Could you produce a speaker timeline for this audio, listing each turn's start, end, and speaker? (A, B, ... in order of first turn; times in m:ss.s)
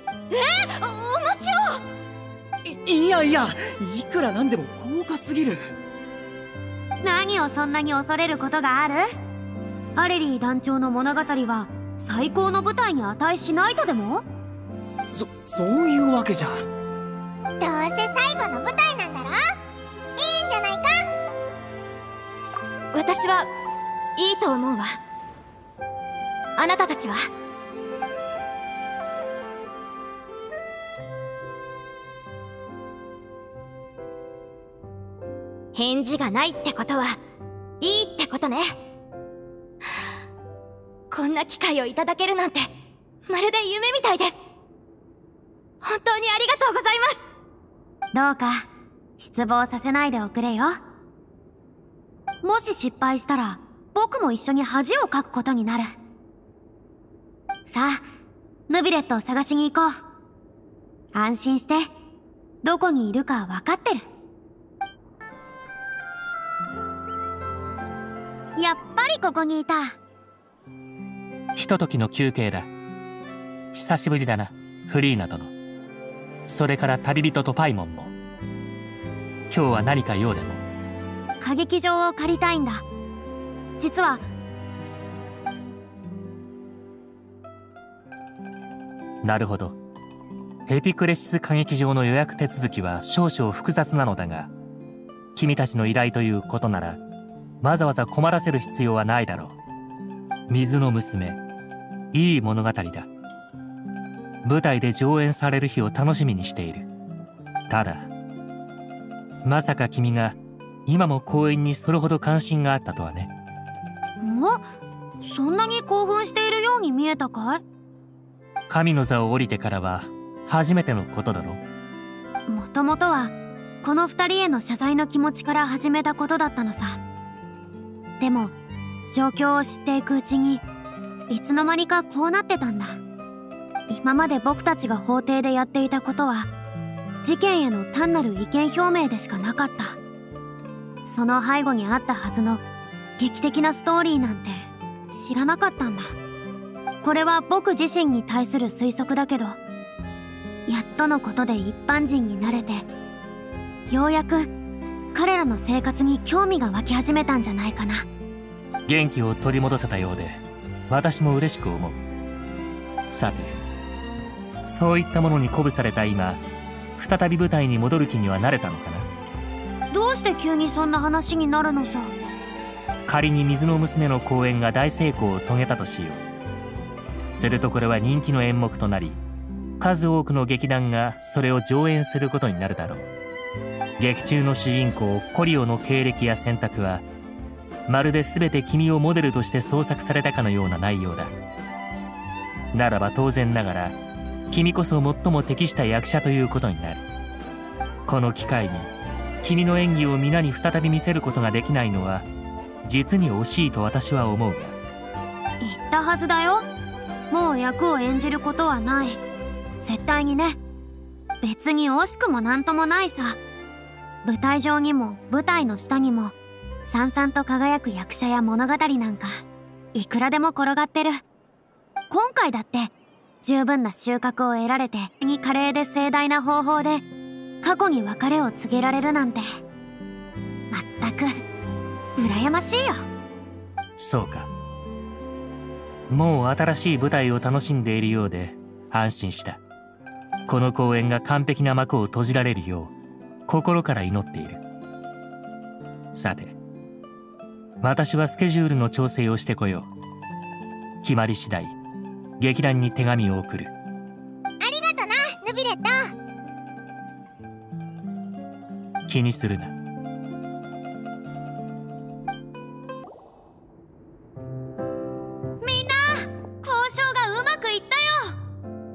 0:00.3-0:01.8 A
0:02.6-0:05.6 B
0:07.0-0:09.1 C
0:10.0-0:14.2 C
0:15.1-0:16.6 B
0:17.6-0:19.4 D
0:20.2-0:21.0 D
0:22.9-0:23.5 A
0:24.2-0:24.9 A
0:26.6-0:27.2 A
0:35.7-0:37.2 A
0:37.8-0:38.7 A
0:41.1-0:42.7 A
0:43.2-0:44.4 A
0:45.8-0:47.3 A
0:48.1-0:48.7 C
0:49.2-0:50.8 C
0:52.4-0:55.9 C
0:57.7-0:58.0 C
0:58.7-0:59.9 C
1:01.1-1:01.9 C
1:02.6-1:04.0 C
1:08.6-1:10.0 C
1:11.5-1:12.7 E
1:13.7-1:15.5 E
1:16.5-1:18.1 E
1:19.5-1:20.6 E
1:21.4-1:22.8 C
1:23.8-1:24.2 C
1:29.2-1:29.8 E
1:30.7-1:34.5 E
1:35.4-1:37.0 E
1:37.6-1:39.6 E
1:40.5-1:41.4 E
1:42.1-1:43.1 E
1:44.4-1:46.8 E
1:47.7-1:48.1 E
1:49.4-1:53.3 E
1:54.2-1:54.6 C
1:55.2-1:57.6 C
1:58.7-2:01.6 E
2:02.5-2:07.0 C
2:08.2-2:08.5 C
2:09.1-2:10.6 C
2:11.3-2:13.0 C
2:13.9-2:16.5 C
2:17.2-2:20.0 C
2:21.0-2:22.6 C
2:23.2-2:26.1 C
2:27.0-2:29.6 C
2:30.7-2:32.8 C
2:33.9-2:34.5 C
2:35.1-2:38.0 C
2:38.9-2:42.0 E
2:43.1-2:43.6 E
2:44.6-2:46.4 E
2:47.0-2:49.1 E
2:49.9-2:52.1 C
2:53.0-2:56.2 E
2:57.3-2:59.2 E
2:59.8-3:03.1 E
3:04.0-3:07.0 E
3:07.9-3:11.3 E
3:12.7-3:14.0 E
3:14.5-3:17.0 E
3:18.0-3:18.9 E
3:19.4-3:22.3 E
3:22.8-3:24.8 E
3:25.6-3:26.7 C
3:27.3-3:29.2 C
3:29.8-3:30.6 C
3:31.4-3:33.4 C
3:34.2-3:36.3 C
3:36.8-3:39.3 C
3:39.9-3:41.2 C
3:42.1-3:47.0 C
3:47.6-3:49.4 C
3:50.7-3:51.3 C
3:52.2-3:53.0 C
3:54.0-3:54.5 E
3:56.1-3:59.6 E
4:00.5-4:02.9 E
4:03.5-4:04.6 E
4:06.1-4:06.5 E
4:07.8-4:09.9 E
4:11.0-4:11.7 E
4:12.4-4:13.7 E
4:14.6-4:16.1 D
4:19.0-4:19.7 E
4:25.6-4:28.3 C